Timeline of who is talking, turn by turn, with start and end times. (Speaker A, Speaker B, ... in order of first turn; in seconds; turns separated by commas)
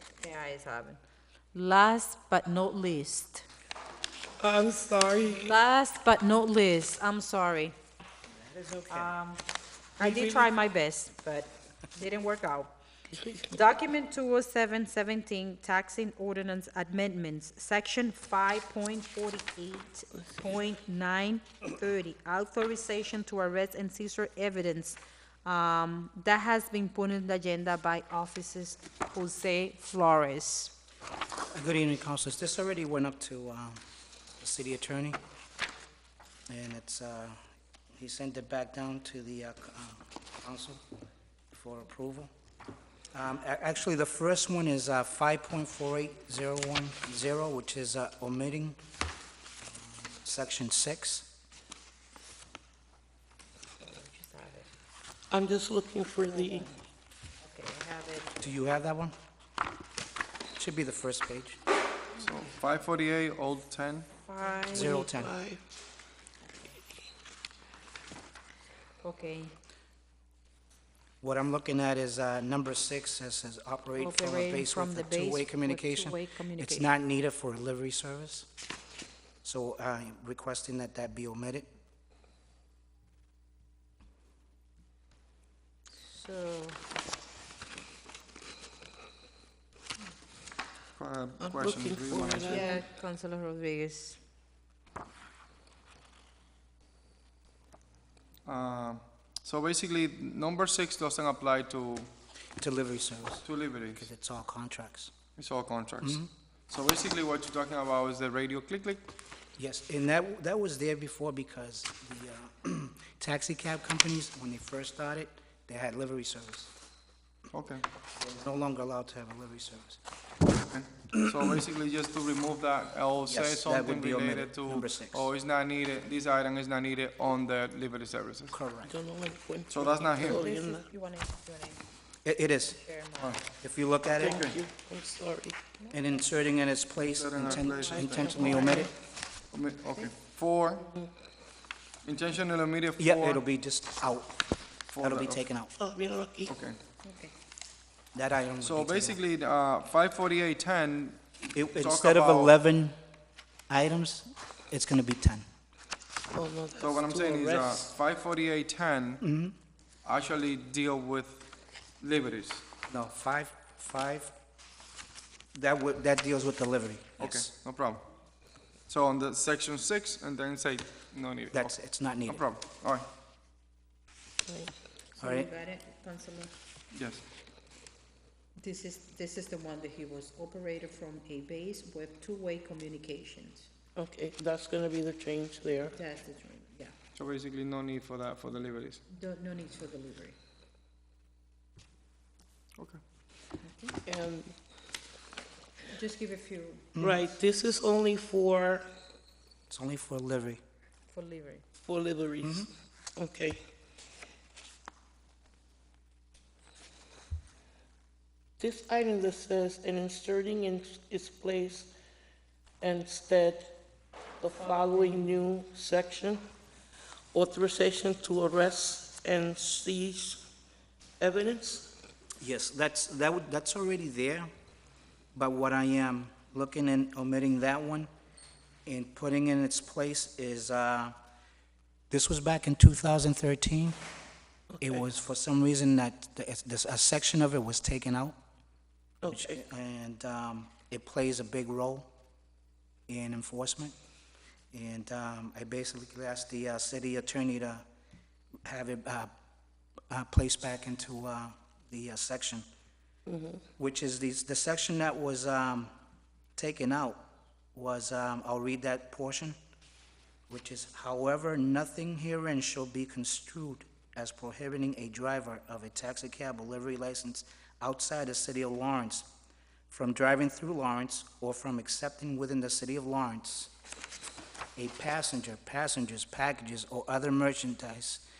Speaker A: 0.2-1.0, Speaker A: 1.5-3.5, Speaker B: 4.4-5.5, Speaker A: 5.3-7.8, Speaker C: 8.3-9.2, Speaker A: 8.9-9.4, Speaker A: 10.0-12.7, Speaker B: 10.0-10.5, Speaker B: 13.1-13.6, Speaker A: 13.5-30.8, Speaker C: 31.5-33.8, Speaker C: 34.4-35.2, Speaker C: 36.5-37.4, Speaker C: 38.0-40.8, Speaker C: 41.5-42.3, Speaker C: 43.1-48.8, Speaker C: 49.6-51.3, Speaker A: 53.8-54.7, Speaker B: 55.3-56.7, Speaker A: 56.2-56.8, Speaker A: 57.4-58.4, Speaker C: 58.4-59.1, Speaker C: 60.6-61.6, Speaker D: 62.2-64.1, Speaker B: 64.3-65.6, Speaker A: 64.4-65.0, Speaker C: 64.7-65.4, Speaker A: 69.0-69.5, Speaker C: 71.2-78.5, Speaker A: 74.0-76.9, Speaker C: 79.4-81.7, Speaker A: 85.9-86.8, Speaker D: 91.0-92.7, Speaker B: 91.4-92.8, Speaker A: 92.5-94.2, Speaker D: 98.5-102.1, Speaker C: 102.6-105.1, Speaker D: 103.5-104.1, Speaker D: 105.4-109.1, Speaker C: 106.0-106.3, Speaker C: 109.6-116.7, Speaker D: 117.5-117.8, Speaker C: 118.2-120.0, Speaker D: 120.7-128.6, Speaker C: 123.3-125.3, Speaker C: 128.5-128.9, Speaker B: 128.9-130.9, Speaker D: 129.7-130.4, Speaker A: 130.2-131.8, Speaker C: 132.2-132.8, Speaker A: 132.8-133.4, Speaker C: 133.6-134.5, Speaker B: 134.2-135.6, Speaker D: 134.2-134.6, Speaker A: 135.8-136.1, Speaker C: 135.9-138.9, Speaker D: 137.2-138.8, Speaker B: 137.4-138.9, Speaker D: 139.5-140.8, Speaker B: 140.8-141.1, Speaker D: 142.1-143.4, Speaker C: 143.0-144.4, Speaker D: 144.9-145.4, Speaker C: 145.0-145.7, Speaker B: 145.8-146.5, Speaker D: 146.5-146.8, Speaker A: 147.0-147.3, Speaker C: 148.1-149.2, Speaker D: 148.6-152.6, Speaker C: 151.5-153.0, Speaker C: 153.7-155.4, Speaker B: 156.3-157.9, Speaker D: 156.8-159.2, Speaker C: 159.2-159.6, Speaker D: 160.1-161.4, Speaker D: 162.0-162.7, Speaker C: 162.9-164.3, Speaker C: 165.5-167.5, Speaker D: 167.2-168.0, Speaker D: 168.9-171.8, Speaker C: 171.5-172.4, Speaker D: 172.3-173.1, Speaker B: 174.5-174.7, Speaker A: 175.1-176.5, Speaker C: 175.2-175.5, Speaker D: 176.9-177.2, Speaker A: 178.6-183.7, Speaker B: 184.0-185.9, Speaker A: 185.9-186.9, Speaker D: 187.2-189.0, Speaker A: 189.1-190.4, Speaker A: 193.6-194.0, Speaker B: 194.1-194.6, Speaker A: 195.9-196.9, Speaker C: 197.0-197.3, Speaker B: 197.0-198.9, Speaker C: 199.7-200.6, Speaker A: 201.1-201.6, Speaker B: 201.8-203.6, Speaker C: 202.4-202.7, Speaker B: 208.6-211.9, Speaker B: 212.8-213.8, Speaker B: 214.4-216.4, Speaker A: 214.5-215.4, Speaker B: 217.3-220.5, Speaker B: 221.2-221.9, Speaker C: 222.4-224.5, Speaker C: 225.3-228.1, Speaker C: 228.9-231.2, Speaker C: 232.1-234.0, Speaker B: 234.7-235.0, Speaker C: 234.8-238.4, Speaker B: 239.2-239.6, Speaker C: 239.3-242.1, Speaker C: 243.1-243.9, Speaker C: 244.7-247.8, Speaker C: 248.7-249.3, Speaker C: 250.1-252.7, Speaker B: 253.3-253.6, Speaker C: 253.8-255.9, Speaker C: 256.6-259.6, Speaker C: 260.5-269.3, Speaker C: 269.9-273.7, Speaker C: 274.8-278.2